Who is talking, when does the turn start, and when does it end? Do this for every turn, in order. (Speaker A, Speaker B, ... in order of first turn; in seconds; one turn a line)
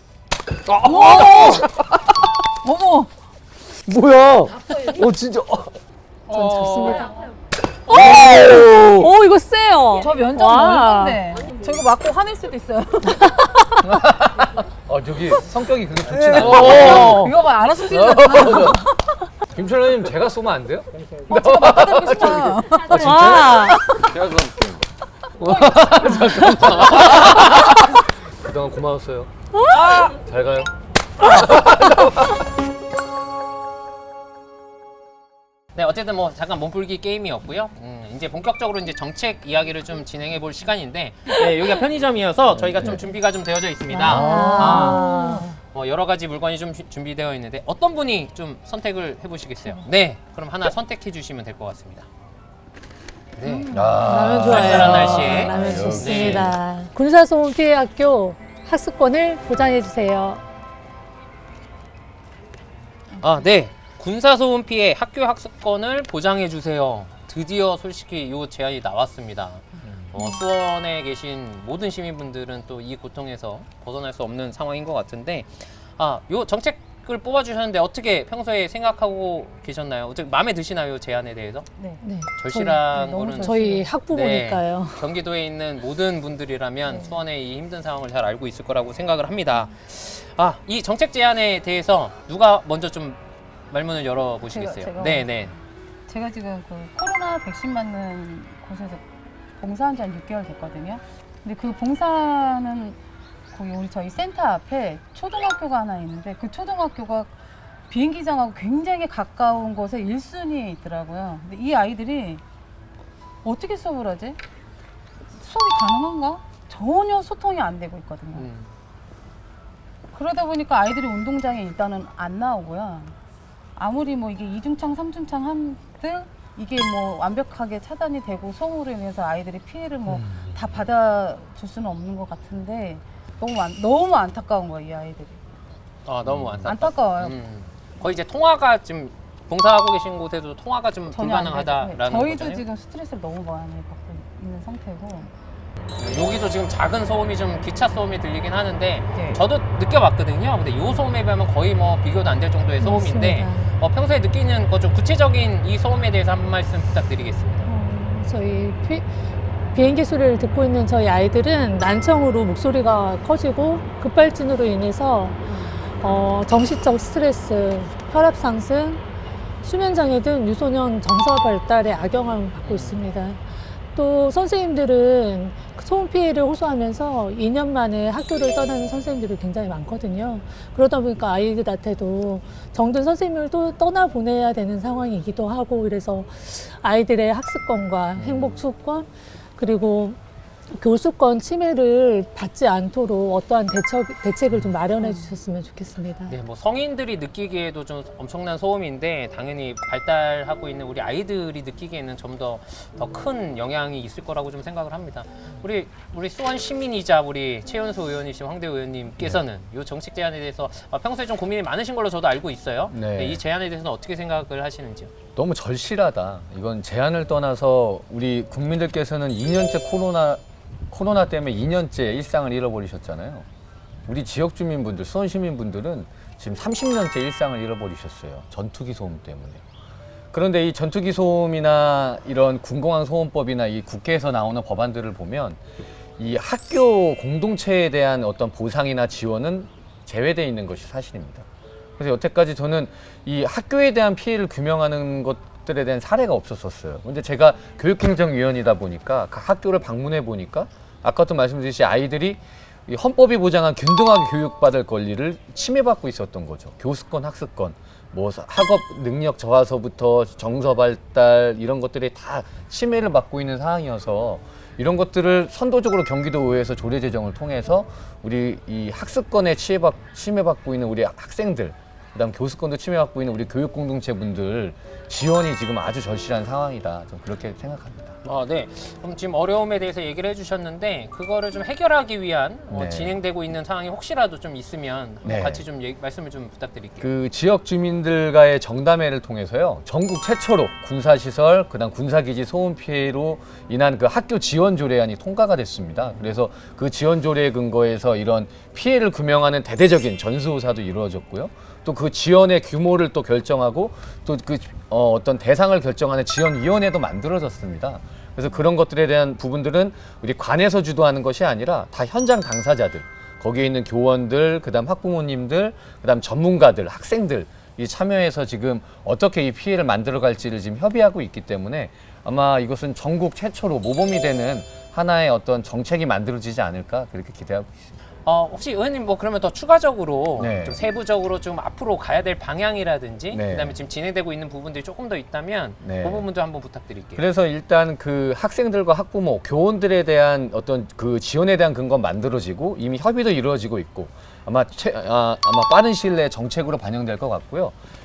Speaker A: 0.7-2.0
Speaker B: 0.8-1.7
Speaker B: 2.6-3.1
Speaker A: 3.8-5.8
Speaker C: 6.3-6.9
Speaker B: 6.3-7.2
Speaker D: 6.3-7.1
Speaker D: 7.9-11.2
Speaker A: 7.9-9.1
Speaker B: 10.0-13.3
Speaker A: 13.9-17.3
Speaker B: 16.1-18.9
Speaker C: 16.5-17.3
Speaker A: 17.9-18.9
Speaker A: 19.5-24.8
Speaker B: 21.3-23.7
Speaker D: 22.9-23.8
Speaker A: 25.4-29.3
Speaker B: 25.5-26.3
Speaker C: 29.7-30.1
Speaker A: 30.1-32.2
Speaker C: 35.8-45.0
Speaker A: 42.7-43.0
Speaker D: 43.9-45.6
Speaker A: 44.0-45.0
Speaker C: 45.7-52.1
Speaker C: 53.4-53.7
Speaker B: 53.4-53.9
Speaker A: 53.7-56.6
Speaker D: 53.7-60.4
Speaker C: 54.4-56.6
Speaker C: 63.2-81.7
Speaker B: 81.8-82.0
Speaker D: 82.0-85.1
Speaker C: 82.4-93.2
Speaker B: 82.9-83.9
Speaker B: 86.9-87.2
Speaker C: 93.7-95.5
Speaker B: 94.4-95.6
Speaker B: 96.1-99.0
Speaker B: 99.6-103.0
Speaker B: 103.5-107.4
Speaker B: 107.9-112.4
Speaker B: 113.4-114.4
Speaker B: 115.4-118.5
Speaker C: 118.3-118.7
Speaker B: 120.1-123.1
Speaker B: 123.8-135.4
Speaker A: 130.2-130.5
Speaker C: 136.1-142.6
Speaker A: 136.3-136.7
Speaker B: 136.7-137.4
Speaker B: 141.1-145.3
Speaker C: 146.0-157.7
Speaker B: 149.1-149.4
Speaker D: 152.8-153.7
Speaker D: 157.7-159.1
Speaker D: 159.7-169.0
Speaker D: 169.6-190.2
Speaker C: 172.6-173.0
Speaker A: 188.2-188.5
Speaker D: 190.7-196.4
Speaker B: 195.0-195.4
Speaker C: 196.3-215.1
Speaker A: 212.9-213.4
Speaker A: 215.3-223.5
Speaker A: 224.1-229.6
Speaker A: 230.3-235.6
Speaker A: 236.2-241.5
Speaker A: 242.0-278.2
Speaker C: 278.2-287.1
Speaker A: 282.7-283.2
Speaker A: 285.2-285.7
Speaker A: 287.0-327.8
Speaker C: 328.2-337.2
Speaker A: 330.4-330.8
Speaker A: 333.3-333.8
Speaker A: 335.8-336.3
Speaker A: 337.2-347.8